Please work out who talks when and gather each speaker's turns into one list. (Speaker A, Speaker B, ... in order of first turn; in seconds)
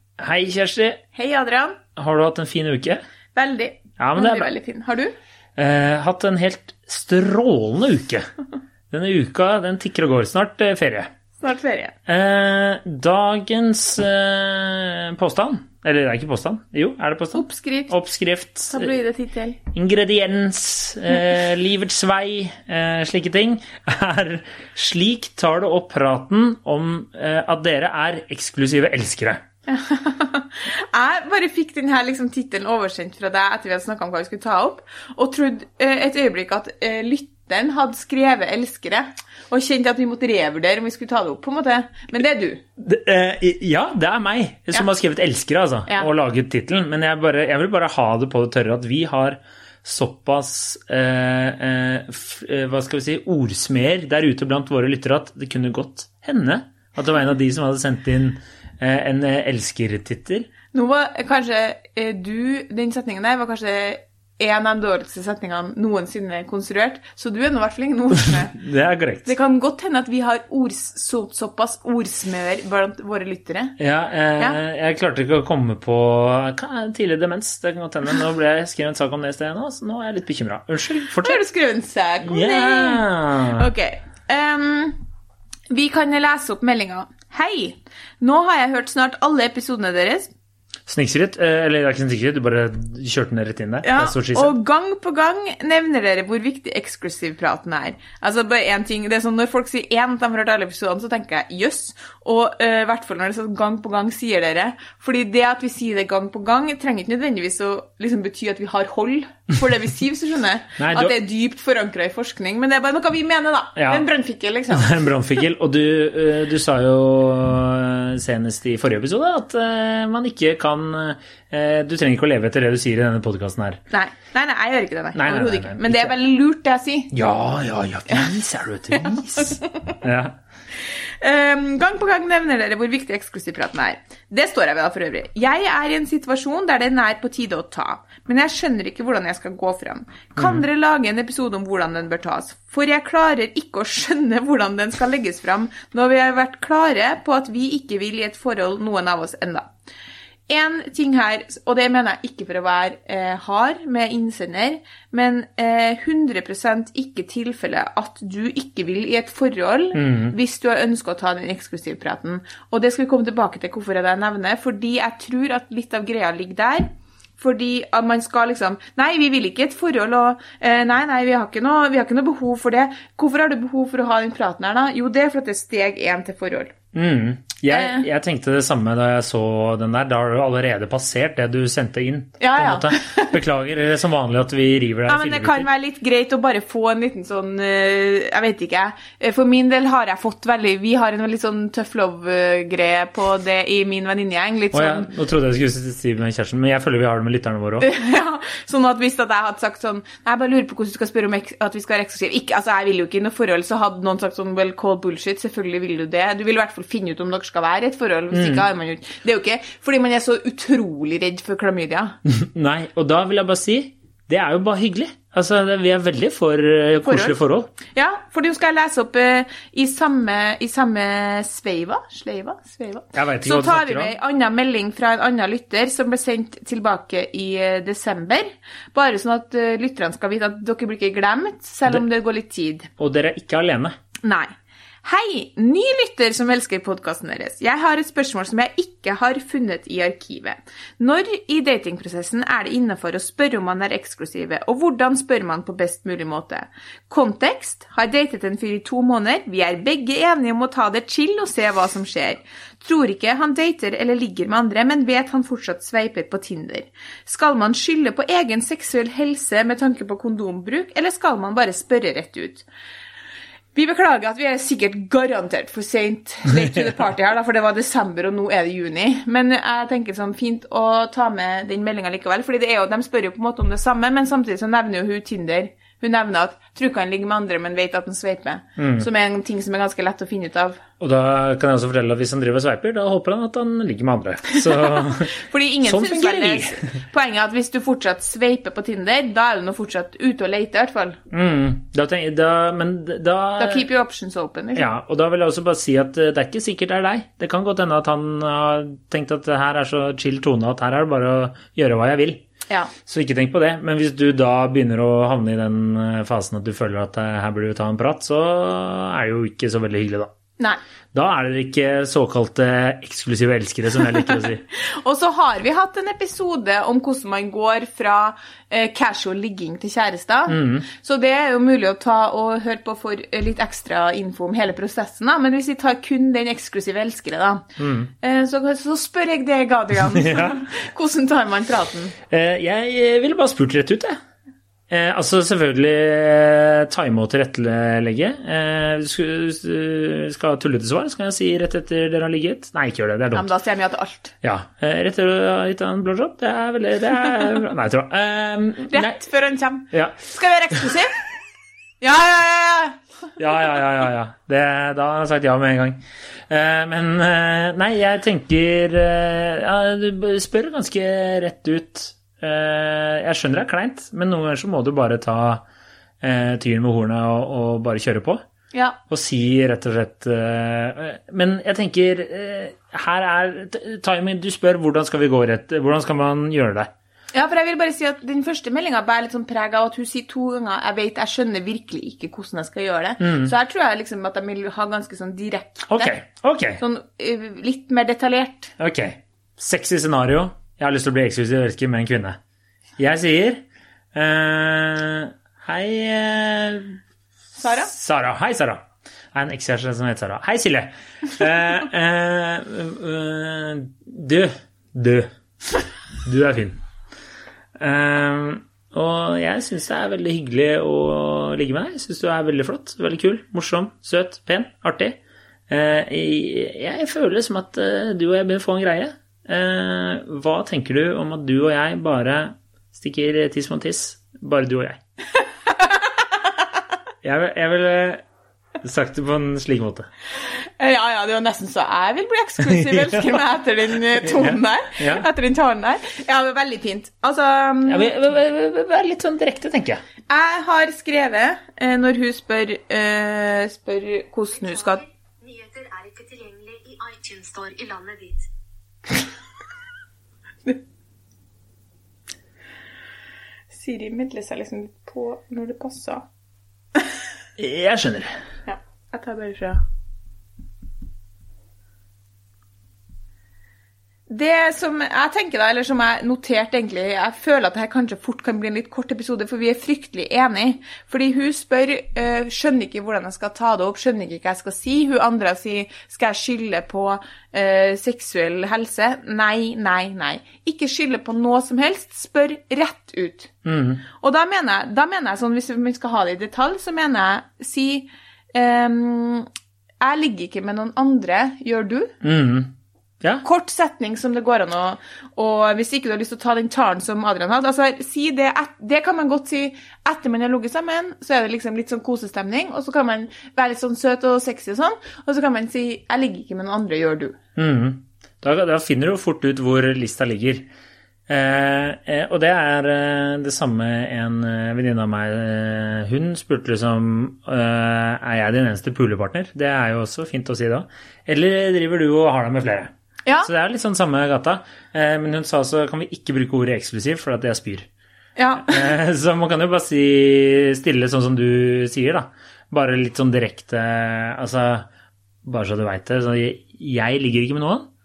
Speaker A: 0.2-1.0, 2.0-3.0, 4.0-4.5, 5.6-8.3, 8.9-11.1, 12.1-18.9, 19.7-29.4, 42.8-60.5, 68.2-69.3, 73.8-81.4, 82.2-83.7, 90.9-94.5, 110.8-111.2, 113.8-114.0, 114.7-123.8, 125.1-126.2, 127.1-130.4, 140.4-140.6, 159.9-160.3, 176.9-185.7, 194.7-197.9, 208.3-208.7, 212.2-217.7, 223.1-224.1, 233.0-233.9, 278.8-279.1, 281.0-286.9, 291.3-293.9, 294.8-302.4, 303.1-310.3, 311.1-314.6, 320.5-320.9, 327.8-328.1, 330.1-330.6, 332.3-334.2, 334.9-343.5, 344.4-349.2, 349.9-350.2, 353.4-365.6, 366.2-368.4, 369.1-376.9, 383.2-383.5, 385.9-386.8, 388.8-392.4, 393.0-397.0, 397.6-405.3, 406.2-406.8, 407.8-415.2, 415.7-425.0, 427.2-428.2, 428.8-430.1, 432.6-433.4, 434.1-435.3, 437.9-440.0, 457.6-458.3, 483.6-484.0, 492.2-493.4, 507.6-510.7, 511.3-527.9, 528.5-534.9, 535.4-537.9
Speaker B: 1.1-1.8, 3.3-5.1, 11.4-11.9, 17.3-17.9, 18.7-19.6, 29.7-42.6, 60.7-68.5, 69.2-73.8, 81.2-85.0, 85.7-90.3, 93.8-115.1, 123.9-127.1, 128.9-129.9, 130.8-149.7, 150.5-176.8, 177.7-178.1, 182.4-183.3, 185.1-195.1, 197.8-212.2, 217.1-232.9, 234.2-234.5, 235.0-262.7, 263.7-280.8, 284.5-291.2, 293.6-294.9, 314.0-332.1, 343.3-344.3, 348.9-351.2, 352.0-353.0, 368.7-369.0, 377.3-386.2, 386.8-388.7, 397.6-397.9, 425.6-426.6, 430.4-438.1, 440.3-445.0, 453.7-456.3, 458.7-459.8, 464.3-483.5, 484.1-489.5, 490.0-492.1, 493.4-507.4, 528.4-528.9
Speaker C: 444.6-448.5